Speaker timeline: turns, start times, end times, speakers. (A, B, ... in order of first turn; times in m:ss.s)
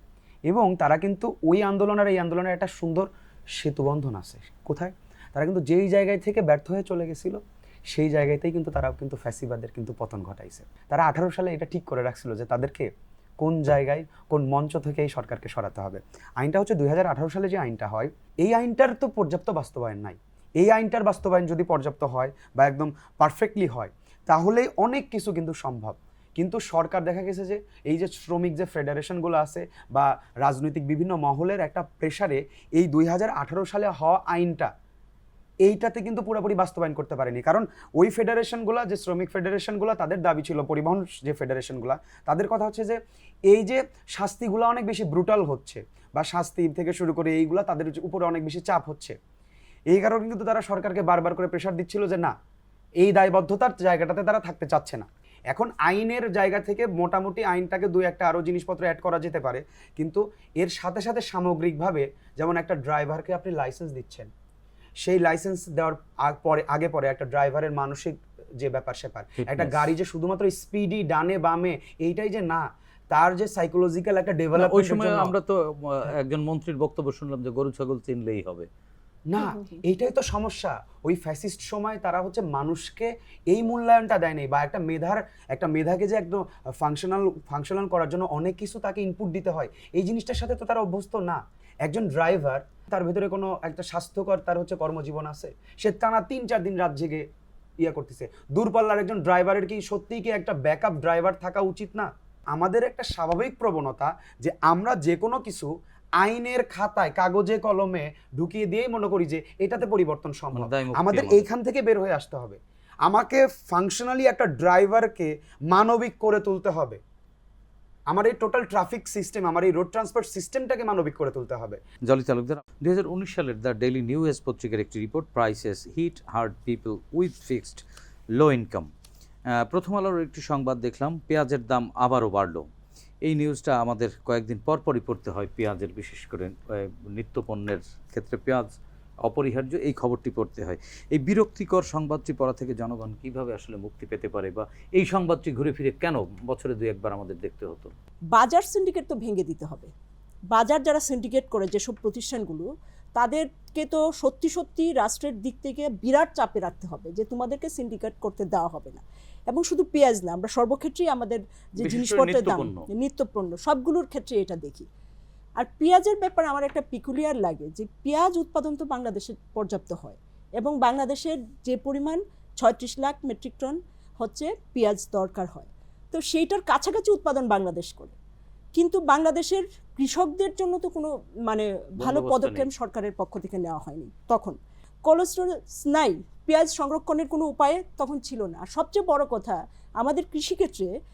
0:00.5-0:12.9 A
0:13.4-0:34.7 A
0:35.6-0:43.0 A
0:43.5-0:49.2 A
0:49.9-0:52.3 A
0:53.0-1:04.3 A
1:05.0-1:15.3 A
1:09.4-1:09.9 B
1:14.6-1:18.7 B
1:19.3-1:37.2 A
1:37.8-1:57.0 A
1:50.5-1:51.5 B
1:58.1-2:01.8 A
2:02.0-2:07.8 B
2:08.3-2:08.9 B
2:09.5-2:12.6 B
2:13.2-2:18.7 B
2:19.2-2:27.9 B
2:28.3-2:29.9 C
2:30.5-2:44.9 C
2:41.8-2:42.9 B
2:45.6-2:58.2 C
2:58.8-3:10.9 C
3:02.0-3:02.7 B